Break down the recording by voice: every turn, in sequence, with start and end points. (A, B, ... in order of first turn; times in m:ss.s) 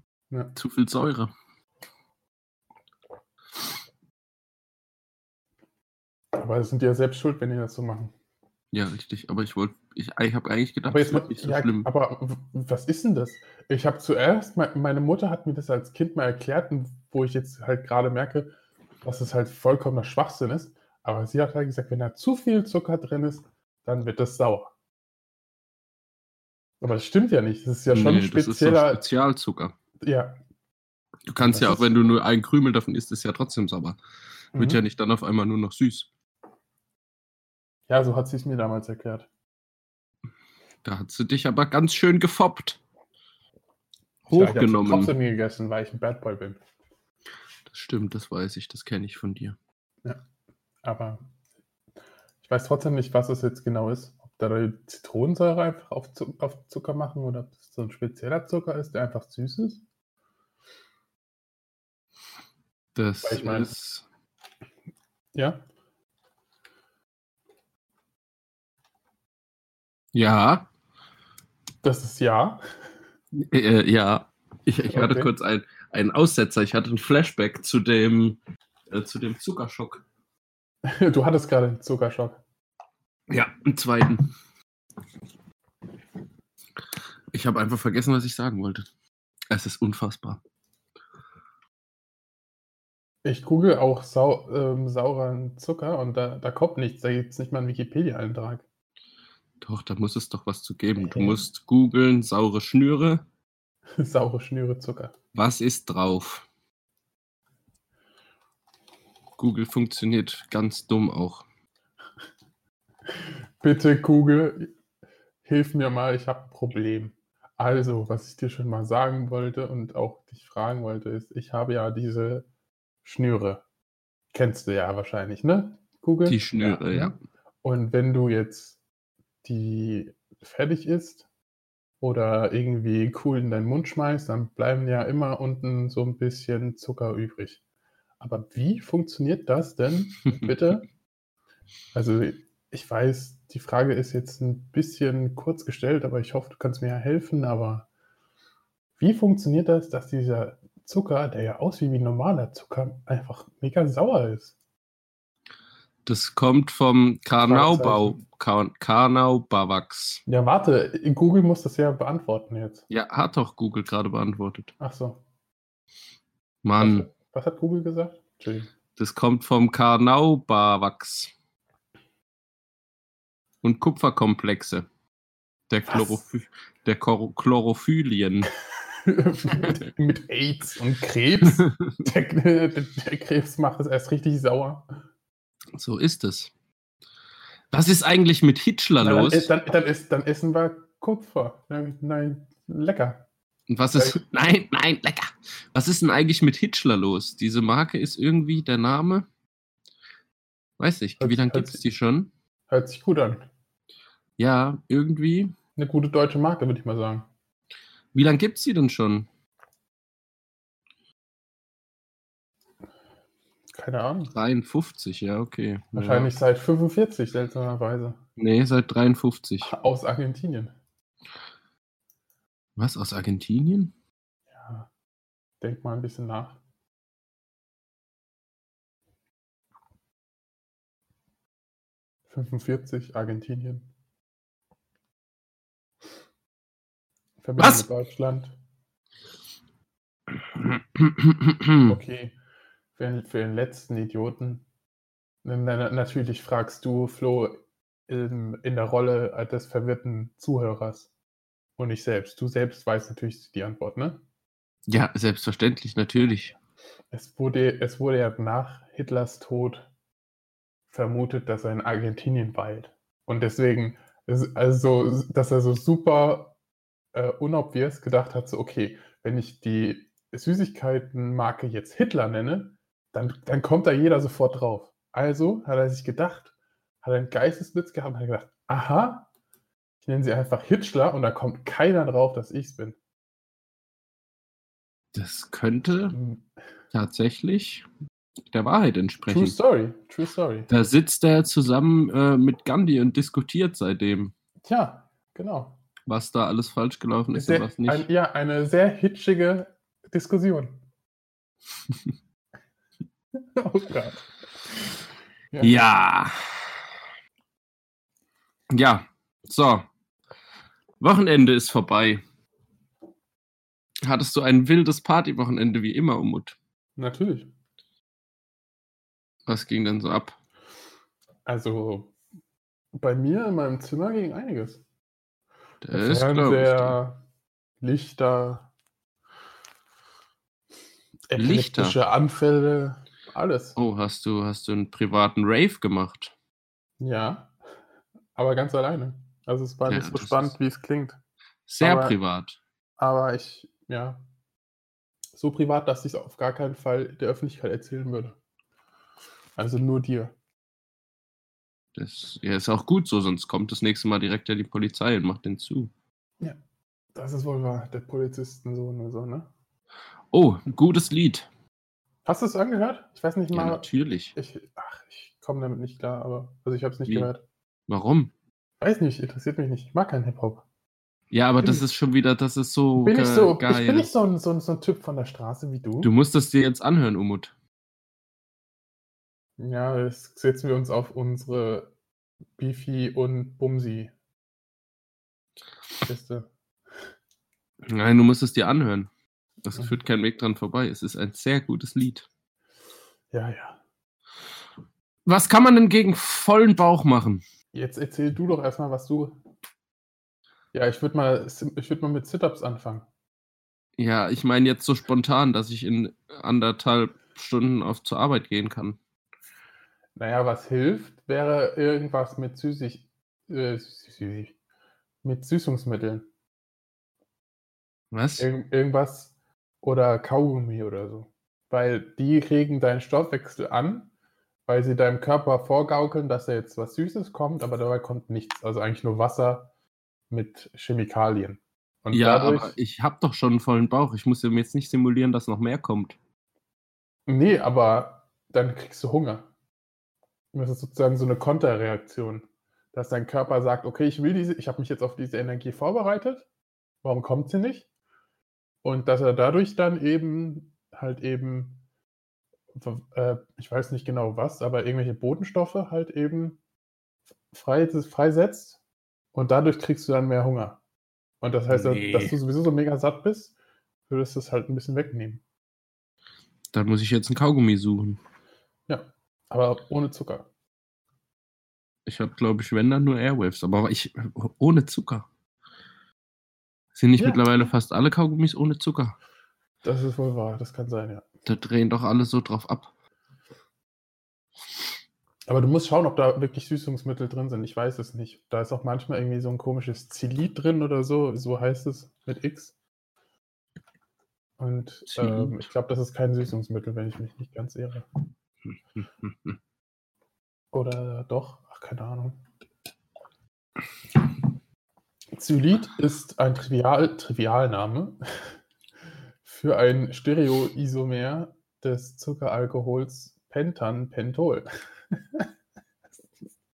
0:00.5-0:01.3 A
0:06.3-0:08.1 B
0:08.7-0:11.9 A
0:10.9-0:18.5 B
0:19.0-0:24.7 B
0:26.8-0:29.0 B
0:27.9-0:29.7 A
0:30.0-0:30.4 B
0:31.3-0:34.0 A
0:31.4-0:31.9 B
0:34.5-0:34.8 B
0:34.5-0:36.1 A
0:37.9-0:39.3 B
0:40.8-0:42.8 A
0:44.2-0:45.1 A
0:44.3-0:46.6 B
0:47.7-0:49.6 A
0:50.8-0:51.2 B
0:52.4-0:59.8 B
1:02.9-1:04.0 A
1:03.2-1:03.7 B
1:05.3-1:05.6 B
1:10.1-1:10.7 A
1:11.8-1:12.6 B
1:13.3-1:18.4 A
1:14.9-1:15.3 B
1:18.9-1:20.0 A
1:20.8-1:22.4 B
1:23.3-1:24.2 A
1:27.3-1:28.9 A
1:29.5-1:30.4 A
1:33.2-1:38.6 B
1:39.6-1:43.2 A
1:41.0-1:41.4 B
1:44.0-1:45.1 B
1:45.3-1:46.4 A
1:49.4-1:51.4 A
1:53.6-1:54.7 B
1:55.4-2:02.5 B
2:03.0-2:03.6 B
2:04.3-2:08.8 B
2:06.2-2:07.1 A
2:09.4-2:11.2 B
2:12.0-2:17.6 B
2:18.2-2:20.9 B
2:21.9-2:27.9 B
2:29.0-2:34.5 B
2:36.0-2:40.2 A
2:37.4-2:38.2 B
2:40.3-2:42.8 B
2:42.9-2:44.7 A
2:44.8-2:45.2 B
2:46.6-2:47.1 A
2:46.8-2:48.7 B
2:49.0-2:51.3 A
2:53.6-2:54.9 A
2:55.7-2:58.5 A
2:55.9-2:56.2 B
2:59.0-3:04.8 B
3:05.7-3:06.5 A
3:07.7-3:09.5 A
3:09.0-3:13.2 B
3:13.7-3:19.3 A
3:13.9-3:14.2 B
3:20.8-3:22.3 A
3:21.2-3:21.8 B
3:22.7-3:23.5 B
3:24.4-3:25.5 A
3:25.8-3:27.3 B
3:28.1-3:29.3 A
3:33.8-3:34.3 B
3:34.3-3:36.3 A
3:35.9-3:38.2 B
3:38.4-3:39.7 A
3:39.6-3:40.7 B
3:42.8-3:43.9 A
3:44.5-3:44.9 B
3:45.6-3:46.6 B
3:52.3-3:53.9 B
3:57.4-3:58.5 B
3:57.6-3:57.8 A
4:00.5-4:01.9 A
4:01.8-4:02.3 B
4:03.0-4:04.6 B
4:05.4-4:07.6 B
4:08.1-4:11.1 B
4:11.8-4:14.2 B
4:14.9-4:16.5 A
4:17.1-4:19.9 B
4:20.9-4:26.5 B
4:27.1-4:36.5 B
4:37.0-4:39.3 B
4:40.0-4:43.0 B
4:45.1-4:46.2 A
4:46.1-4:46.4 B
4:46.9-4:47.8 A
4:48.5-4:49.5 A
4:49.3-4:50.7 B
4:50.7-4:54.3 A
4:54.6-4:55.8 B
4:56.1-4:58.0 A
4:57.3-5:00.8 B
5:03.6-5:04.3 B
5:05.5-5:05.8 B
5:05.6-5:06.8 A
5:08.7-5:09.9 A
5:11.0-5:12.2 A
5:14.0-5:16.6 A
5:17.0-5:17.5 B
5:19.4-5:20.3 A
5:21.4-5:22.1 B
5:23.0-5:24.8 B
5:25.8-5:27.0 A
5:25.9-5:27.2 B
5:27.8-5:28.7 B
5:31.3-5:33.8 B
5:31.4-5:32.0 A
5:33.8-5:36.3 A
5:37.0-5:37.5 B
5:38.4-5:41.2 B
5:39.8-5:40.5 A
5:41.7-5:42.6 A
5:41.8-5:42.2 B
5:43.0-5:44.2 B
5:45.3-5:48.4 B
5:49.6-5:50.3 B
5:51.9-5:55.9 A
5:57.1-5:59.5 B
6:00.3-6:01.5 A
6:02.2-6:07.4 B
6:03.5-6:04.3 A
6:07.9-6:08.3 A
6:08.8-6:10.6 B
6:11.3-6:14.1 A
6:13.0-6:16.1 B
6:16.0-6:17.5 A
6:19.6-6:21.9 B
6:22.6-6:24.1 B
6:26.0-6:26.5 B
6:27.9-6:29.1 A
6:29.6-6:32.3 A
6:33.3-6:33.8 B
6:35.2-6:37.4 A
6:37.7-6:39.4 B
6:40.7-6:43.0 B
6:44.0-6:49.0 A
6:50.2-6:54.5 B
6:55.2-6:56.3 B
6:58.1-6:58.5 A
6:58.4-7:04.1 B
7:04.7-7:09.7 B
7:10.3-7:12.8 B
7:12.1-7:16.2 A
7:17.3-7:19.5 B
7:20.5-7:26.4 B
7:27.0-7:27.9 B
7:28.8-7:31.8 B
7:32.7-7:36.6 B
7:37.5-7:38.8 B
7:39.3-7:40.8 B
7:41.4-7:43.5 B
7:41.7-7:42.3 A
7:44.1-7:45.4 B
7:46.7-7:48.2 A
7:48.9-7:50.5 B
7:52.0-7:55.2 A
7:57.0-7:59.2 A
7:57.2-7:57.5 B
7:59.8-8:01.2 B
8:01.4-8:02.9 A
8:05.5-8:12.7 B
8:14.6-8:18.0 B
8:15.1-8:15.5 A
8:19.0-8:19.5 A
8:20.7-8:22.4 B
8:25.3-8:28.2 B
8:29.4-8:34.6 B